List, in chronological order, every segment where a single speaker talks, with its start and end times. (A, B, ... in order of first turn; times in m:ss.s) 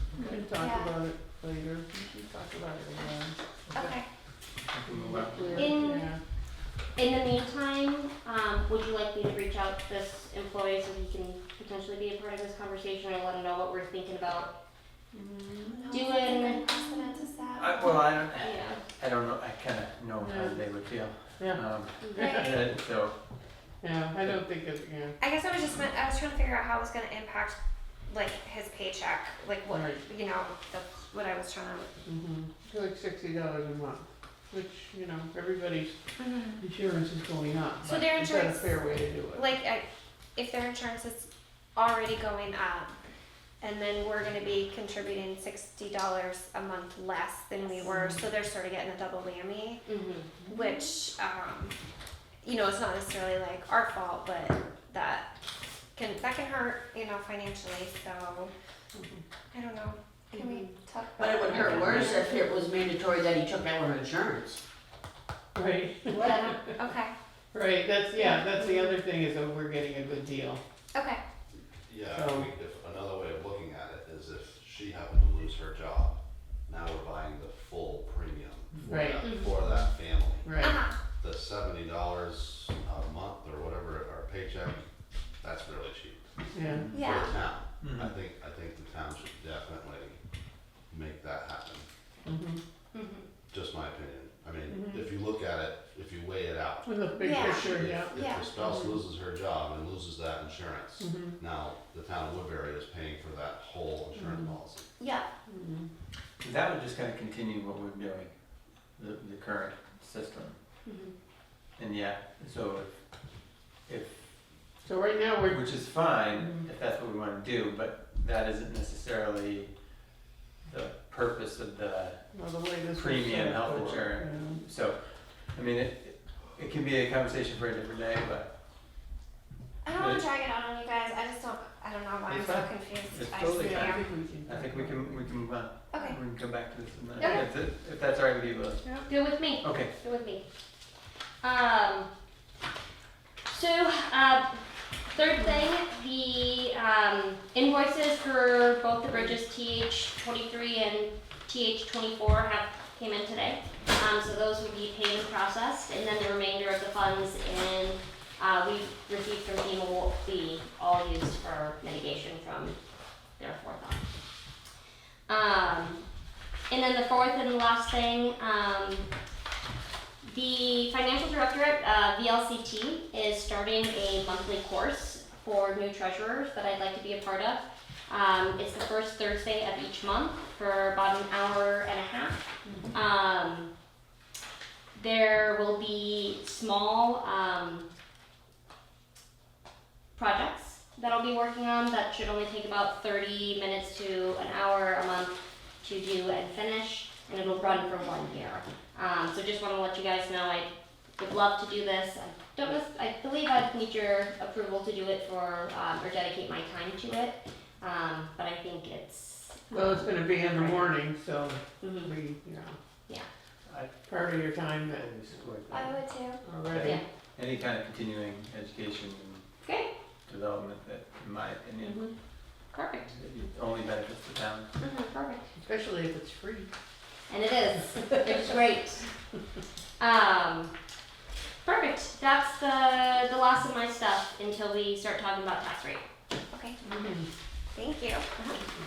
0:00.1-0:00.4 A
0:00.2-0:03.4 B
0:00.5-0:00.9 C
0:03.7-0:04.0 A
0:03.7-0:04.0 C
0:04.7-0:05.8 A
0:04.9-0:06.2 B
0:05.6-0:06.1 D
0:07.0-0:14.5 D
0:15.1-0:15.9 B
0:15.7-0:18.1 C
0:15.9-0:16.6 D
0:17.6-0:23.2 A
0:18.4-0:18.8 D
0:20.2-0:20.6 B
0:21.4-0:22.6 B
0:22.2-0:22.5 C
0:23.8-0:25.2 B
0:25.2-0:27.6 C
0:28.1-0:32.0 C
0:29.7-0:30.0 B
0:32.1-0:35.9 B
0:36.2-0:36.6 C
0:36.6-0:39.5 B
0:37.8-0:38.8 C
0:39.3-0:39.8 C
0:40.4-0:43.0 C
0:43.6-0:49.8 C
0:47.6-0:48.2 D
0:49.9-0:50.4 D
0:50.5-0:51.8 C
0:52.4-0:55.3 C
0:56.0-0:58.5 C
0:58.9-0:59.2 B
0:59.5-1:02.4 C
1:00.3-1:00.7 D
1:01.2-1:04.6 E
1:05.6-1:06.7 B
1:06.1-1:06.6 D
1:06.8-1:07.1 C
1:07.5-1:10.6 B
1:10.9-1:11.2 C
1:11.8-1:24.8 F
1:12.1-1:12.5 B
1:18.9-1:19.3 B
1:19.2-1:19.5 D
1:20.4-1:20.8 B
1:20.6-1:21.0 C
1:25.4-1:26.2 F
1:26.5-1:27.0 B
1:26.6-1:27.0 A
1:26.9-1:27.4 C
1:27.0-1:30.2 F
1:27.8-1:28.1 A
1:30.9-1:31.9 F
1:32.2-1:32.6 B
1:32.9-1:33.3 D
1:33.5-1:44.9 F
1:34.7-1:35.0 B
1:36.8-1:39.0 B
1:37.2-1:38.5 C
1:41.0-1:41.4 B
1:44.2-1:44.6 B
1:45.0-1:45.3 C
1:45.5-1:45.9 B
1:46.4-1:48.4 A
1:49.0-1:50.6 A
1:50.9-1:51.1 D
1:51.8-1:53.0 A
1:53.9-1:54.3 A
1:54.8-1:56.6 B
1:55.5-1:59.7 A
2:00.6-2:02.2 A
2:02.3-2:04.6 B
2:02.9-2:08.5 A
2:09.8-2:14.1 C
2:10.0-2:10.2 A
2:12.3-2:18.8 A
2:13.4-2:15.3 B
2:15.9-2:16.2 C
2:17.2-2:17.4 D
2:19.1-2:20.4 D
2:19.6-2:19.9 A
2:21.4-2:22.1 D
2:23.5-2:24.6 D
2:25.1-2:42.8 D
2:43.4-2:44.1 D
2:45.3-2:46.0 D
2:46.7-2:49.1 D
2:50.2-3:03.7 D
3:02.6-3:03.0 B
3:05.0-3:07.9 D
3:10.2-3:30.9 D
3:29.7-3:32.8 B
3:31.8-3:32.1 D
3:33.7-3:33.9 A
3:34.0-3:35.9 B
3:35.0-3:35.7 A
3:35.7-3:36.4 C
3:36.4-3:37.0 B
3:36.7-3:39.5 A
3:39.6-3:39.9 D
3:40.3-3:42.1 A
3:41.8-3:42.1 B
3:42.7-3:43.1 D
3:43.0-3:44.7 A
3:44.8-3:45.4 D
3:45.6-3:46.7 B
3:47.3-3:49.1 D
3:50.0-3:50.7 D
3:51.6-3:56.0 D
3:56.5-3:56.8 C
3:56.8-3:57.3 B
3:57.7-3:58.3 C